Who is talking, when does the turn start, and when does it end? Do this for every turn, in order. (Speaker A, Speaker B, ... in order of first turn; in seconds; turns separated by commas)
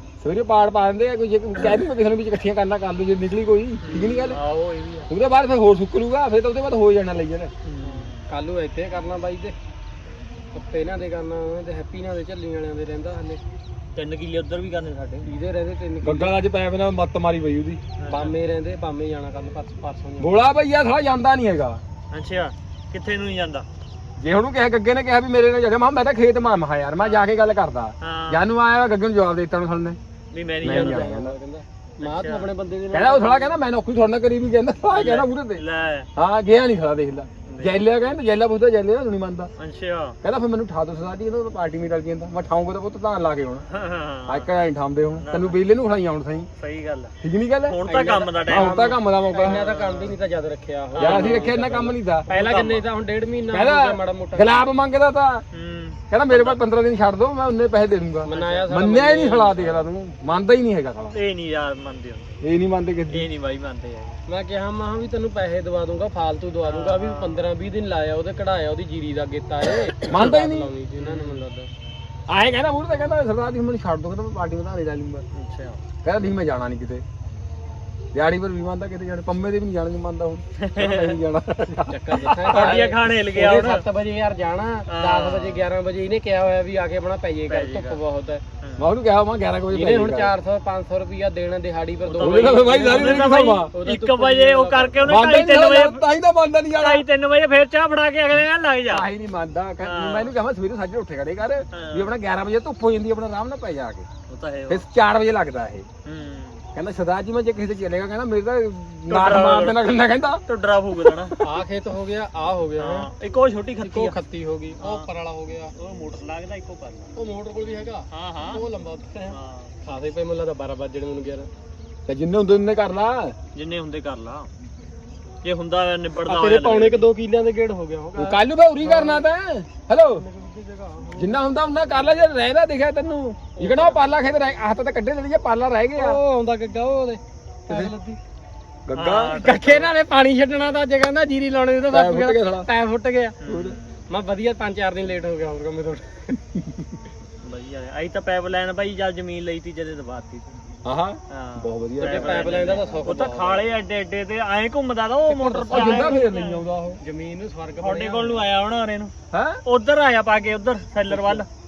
Speaker A: 0.2-4.4, Speaker B: 3.8-5.1, Speaker A: 5.1-7.5, Speaker B: 7.7-8.2, Speaker C: 7.8-9.5, Speaker C: 10.5-13.4, Speaker B: 13.9-15.3, Speaker C: 15.2-16.3, Speaker A: 16.0-17.8, Speaker B: 18.0-18.4, Speaker C: 18.1-20.4, Speaker A: 20.2-21.8, Speaker B: 22.1-23.6, Speaker A: 24.2-30.0, Speaker B: 27.0-27.2, Speaker B: 28.0-28.4, Speaker B: 30.3-31.1, Speaker A: 30.6-31.3, Speaker C: 30.6-33.6, Speaker B: 32.0-32.5, Speaker A: 32.9-35.6, Speaker B: 34.9-36.1, Speaker A: 36.1-39.5, Speaker B: 37.5-37.8, Speaker B: 39.6-40.2, Speaker A: 40.2-43.6, Speaker B: 43.7-44.5, Speaker A: 44.3-46.5, Speaker B: 45.2-45.6, Speaker B: 46.6-47.1, Speaker A: 47.2-47.8, Speaker B: 47.7-50.2, Speaker C: 47.8-48.7, Speaker A: 48.4-49.7, Speaker C: 49.3-54.6, Speaker B: 50.9-51.5, Speaker A: 51.0-52.3, Speaker B: 52.3-52.9, Speaker A: 53.5-55.4, Speaker B: 55.5-56.6, Speaker A: 56.1-61.2, Speaker C: 58.2-59.8, Speaker B: 58.3-58.7, Speaker B: 61.1-62.3, Speaker A: 62.4-63.3, Speaker B: 63.1-64.2, Speaker C: 64.3-71.7, Speaker B: 66.6-67.5, Speaker A: 70.0-70.7, Speaker B: 70.1-70.4, Speaker B: 71.0-71.4, Speaker A: 72.3-75.2, Speaker B: 75.3-75.8, Speaker A: 76.0-77.0, Speaker A: 78.1-82.8, Speaker B: 80.6-81.2, Speaker C: 81.7-88.4, Speaker B: 82.4-83.8, Speaker B: 84.9-85.7, Speaker B: 87.5-88.0, Speaker A: 88.8-90.3, Speaker C: 89.7-95.3, Speaker B: 92.0-96.0, Speaker A: 92.2-93.7, Speaker A: 95.0-97.0, Speaker B: 96.8-99.0, Speaker A: 98.9-104.1, Speaker B: 99.8-100.3, Speaker B: 101.7-102.1, Speaker B: 104.3-104.8, Speaker A: 104.7-105.8, Speaker B: 106.0-106.6, Speaker A: 106.7-110.4, Speaker B: 109.1-109.8, Speaker B: 110.5-111.4, Speaker A: 111.0-111.5, Speaker C: 111.4-113.1, Speaker B: 112.8-114.1, Speaker C: 113.8-115.7, Speaker B: 114.8-115.1, Speaker B: 115.8-117.1, Speaker C: 117.2-121.5, Speaker B: 118.1-118.6, Speaker B: 119.3-119.7, Speaker A: 122.0-123.3, Speaker B: 123.5-124.5, Speaker B: 125.4-127.1, Speaker C: 126.2-129.2, Speaker A: 128.2-130.2, Speaker C: 130.1-131.4, Speaker A: 131.2-136.2, Speaker C: 135.9-138.2, Speaker A: 138.9-139.3, Speaker B: 138.9-139.9, Speaker C: 139.3-143.4, Speaker A: 141.9-142.7, Speaker B: 143.4-144.0, Speaker A: 143.4-143.8, Speaker C: 144.1-146.4, Speaker B: 147.4-150.8, Speaker A: 150.8-153.2, Speaker B: 151.3-156.6, Speaker C: 152.0-153.7, Speaker A: 155.4-157.0, Speaker C: 155.5-156.2, Speaker C: 157.0-158.5, Speaker B: 157.8-159.1, Speaker A: 159.3-159.6, Speaker B: 159.6-161.5, Speaker C: 161.1-161.4